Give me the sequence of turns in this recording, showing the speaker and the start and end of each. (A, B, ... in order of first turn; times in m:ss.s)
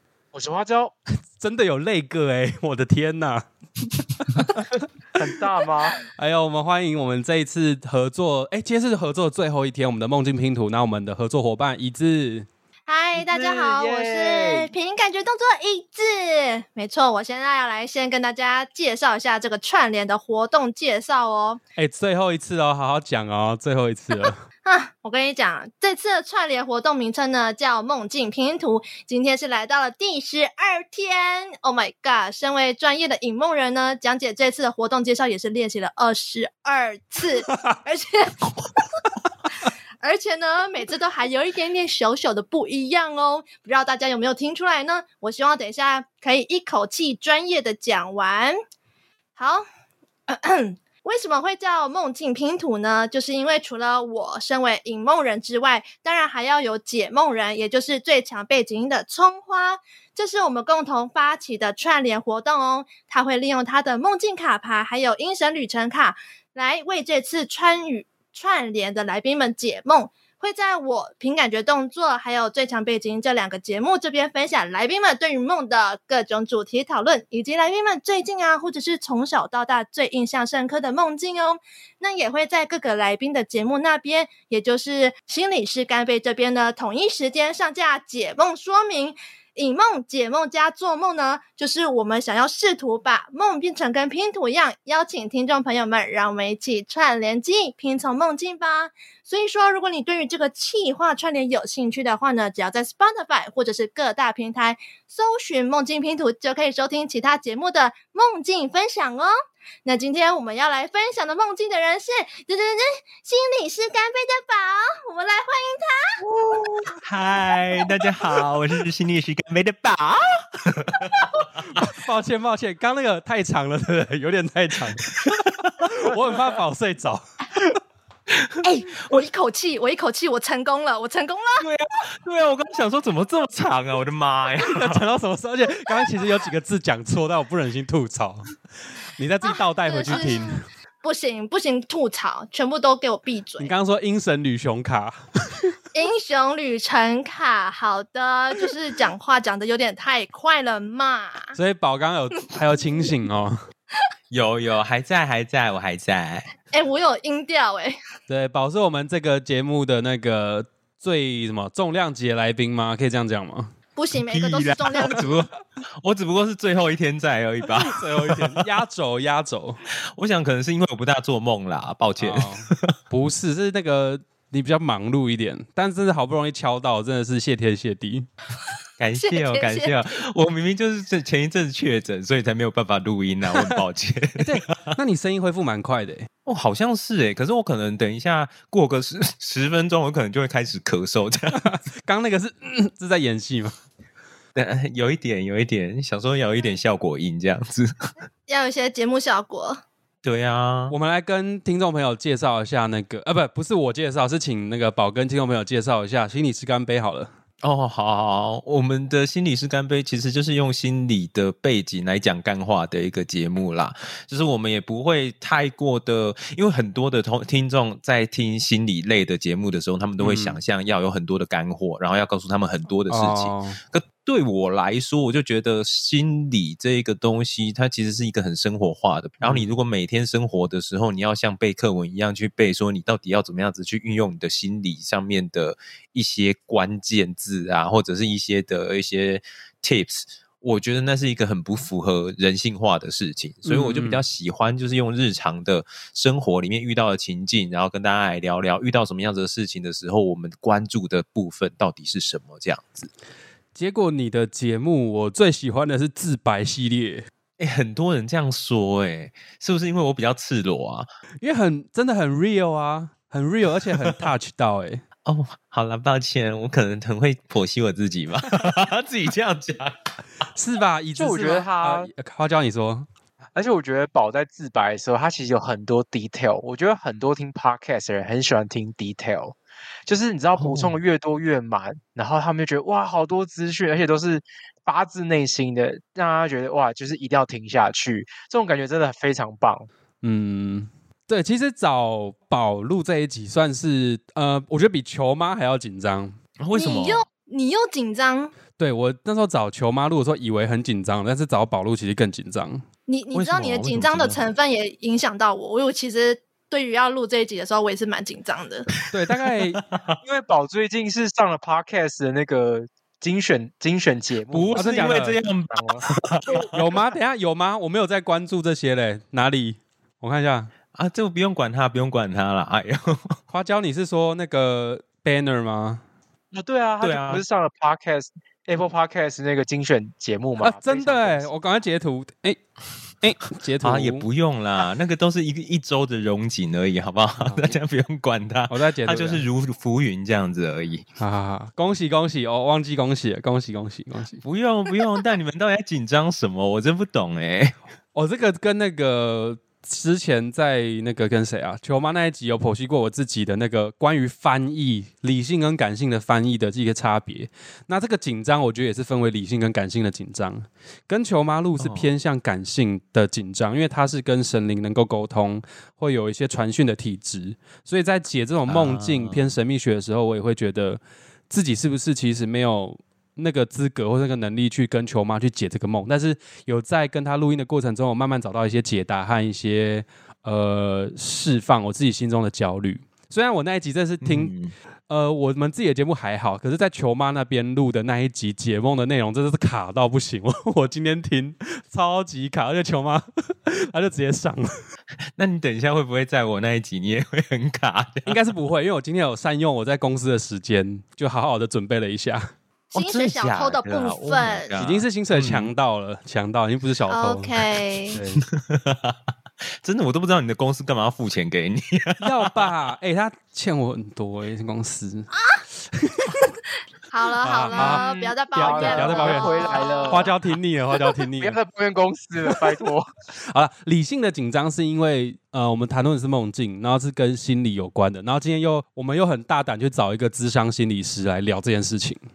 0:00.3-0:00.9 A
0:01.3-0:03.4 B
0:04.0-0:04.9 B
0:05.1-0:06.0 A
0:06.2-0:12.5 B
0:12.9-0:21.6 C
0:13.1-0:14.7 A
0:21.8-0:24.4 B
0:24.6-0:38.9 C
0:40.0-0:48.6 C
0:49.4-0:49.6 C
0:50.3-1:49.3 C
1:49.8-1:56.2 C
1:57.0-2:01.8 D
2:01.6-2:07.7 B
2:05.1-2:05.9 D
2:08.3-2:09.2 D
2:08.6-2:11.7 C
2:11.6-2:15.0 D
2:14.7-2:18.5 B
2:19.0-2:20.6 B
2:19.4-2:23.7 C
2:23.6-2:25.7 B
2:25.9-2:31.6 C
2:31.5-2:33.6 B
2:34.3-2:36.5 D
2:36.7-2:38.0 C
2:38.3-2:43.7 B
2:44.0-2:45.2 C
2:44.3-2:48.6 D
2:47.8-2:49.8 B
2:50.1-2:53.0 D
2:52.2-2:58.3 B
2:59.0-3:05.0 D
2:59.2-3:00.1 C
3:04.4-3:06.3 B
3:06.5-3:11.7 D
3:11.5-3:13.8 B
3:14.6-3:18.1 D
3:18.5-3:19.8 C
3:20.2-3:21.0 D
3:20.9-3:27.3 B
3:27.6-4:13.1 D
3:40.2-3:40.6 B
3:43.1-3:43.8 B
3:49.4-3:49.7 B
4:03.6-4:04.2 B
4:13.8-4:17.3 B
4:17.6-4:21.1 D
4:21.4-4:25.0 B
4:25.3-4:30.0 D
4:30.5-4:33.1 B
4:31.2-4:32.1 A
4:33.6-4:49.9 A
4:40.6-4:41.0 B
4:50.2-4:56.4 B
4:56.6-4:57.3 D
4:56.7-4:58.5 C
4:58.8-5:02.8 B
5:03.1-5:08.9 C
5:03.3-5:04.4 D
5:09.1-5:09.8 B
5:09.4-5:10.2 D
5:10.2-5:16.1 A
5:14.5-5:16.8 D
5:14.7-5:15.4 B
5:16.7-5:20.7 B
5:20.9-5:23.4 D
5:23.5-5:26.0 B
5:26.5-5:31.5 A
5:27.0-5:27.4 D
5:30.6-5:32.6 B
5:33.2-5:34.3 B
5:33.8-5:41.1 D
5:37.4-5:37.8 B
5:38.7-5:39.4 B
5:41.2-5:44.4 B
5:44.4-5:47.8 D
5:48.2-6:24.5 B
6:01.8-6:02.1 D
6:08.7-6:09.6 D
6:24.2-6:24.7 D
6:25.1-6:34.7 B
6:35.4-6:38.3 D
6:38.3-6:42.5 B
6:42.9-6:44.8 C
6:42.9-6:45.7 D
6:44.8-6:47.6 B
6:47.1-6:48.2 C
6:48.1-6:48.5 B
6:48.4-6:49.2 D
6:49.8-6:52.7 D
6:52.2-6:55.3 B
6:55.9-6:56.5 B
6:57.1-7:00.3 C
6:57.4-7:01.6 B
6:57.7-7:00.3 A
7:01.4-7:03.1 A
7:03.5-7:12.2 B